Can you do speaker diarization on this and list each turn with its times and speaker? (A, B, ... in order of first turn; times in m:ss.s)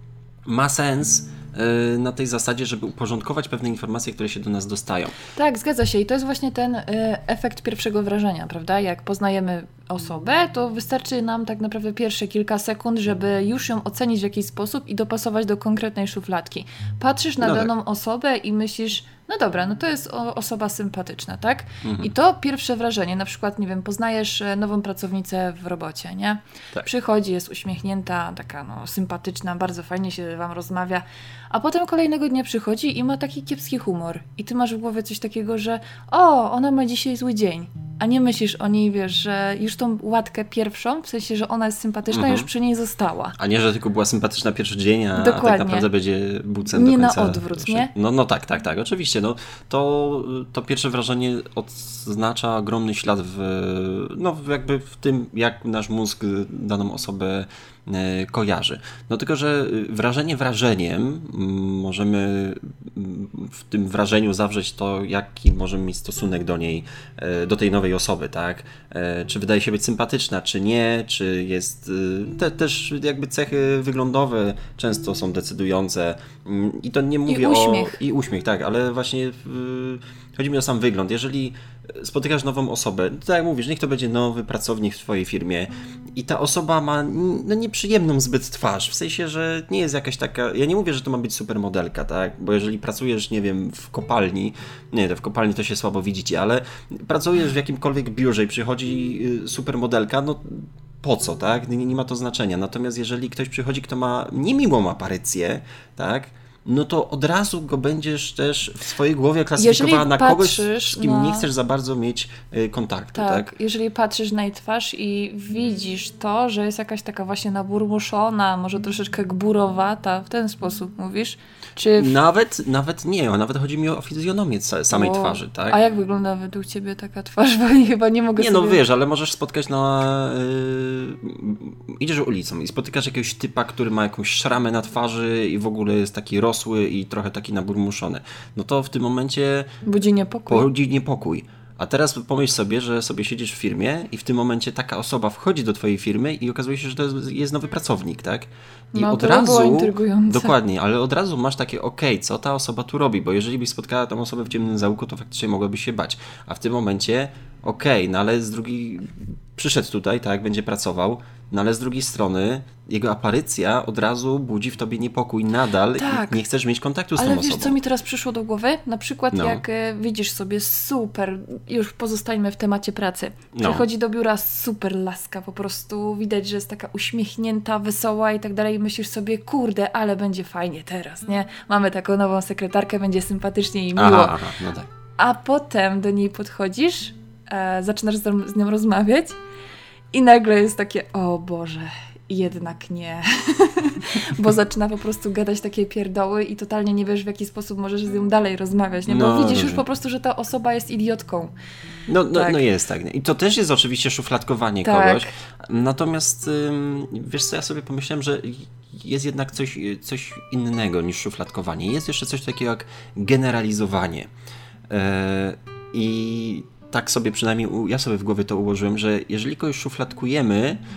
0:00.5-0:05.2 A
0:05.4-0:43.4 B
0:17.4-0:17.7 A
0:21.8-0:22.1 A
0:42.1-0:42.5 A
0:43.4-1:53.5 A
0:45.2-0:45.9 B
0:46.7-0:47.9 B
1:17.3-1:18.0 B
1:49.6-1:51.5 B
1:53.2-2:02.2 B
2:01.9-2:05.8 A
2:04.9-2:08.8 B
2:08.4-2:19.7 A
2:19.8-2:20.7 B
2:20.5-2:47.8 A
2:28.9-2:30.5 B
2:46.0-2:46.4 B
2:47.2-3:04.4 B
2:49.3-2:49.6 A
2:53.5-2:53.8 A
3:04.0-3:04.9 A
3:05.2-3:09.4 B
3:10.1-3:21.5 B
3:19.1-3:19.8 A
3:22.1-3:34.3 A
3:22.3-3:22.6 B
3:24.8-3:25.3 B
3:34.9-3:40.8 A